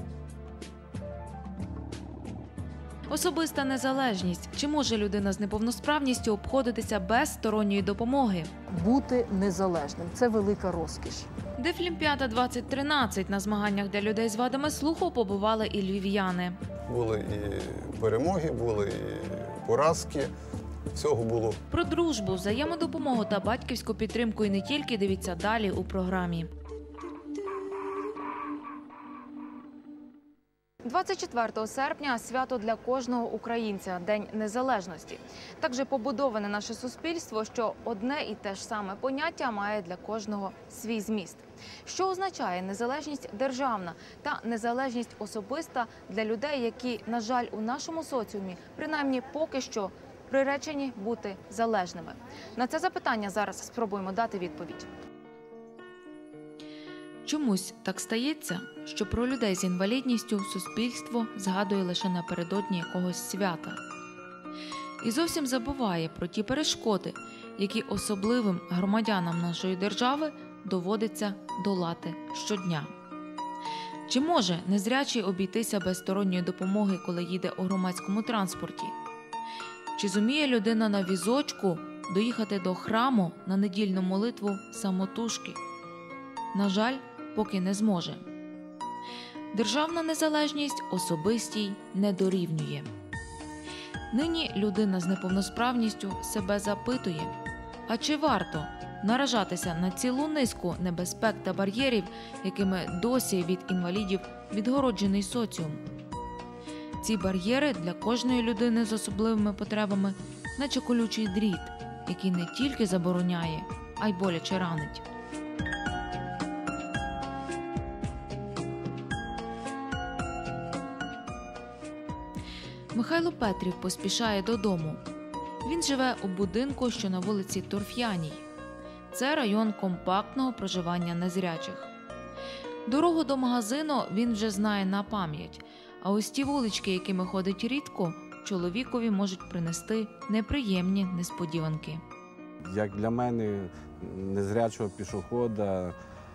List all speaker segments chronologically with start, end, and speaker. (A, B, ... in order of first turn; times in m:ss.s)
0:03.1-0:08.5 A
0:08.7-0:11.3 B
0:11.6-0:16.6 A
0:16.9-0:20.3 C
0:20.9-0:21.6 C
0:21.7-0:26.5 A
0:30.8-0:54.9 A
0:57.2-1:03.8 A
1:05.0-1:12.9 A
1:14.1-1:18.9 A
1:19.9-1:25.6 A
1:26.5-1:28.2 A
1:29.5-1:32.9 A
1:34.1-1:37.3 A
1:37.9-1:45.8 A
1:47.0-1:55.0 A
2:02.9-2:05.0 A
2:05.6-2:08.4 A
2:09.1-2:11.9 A
2:12.8-2:22.0 A
2:22.6-2:26.0 D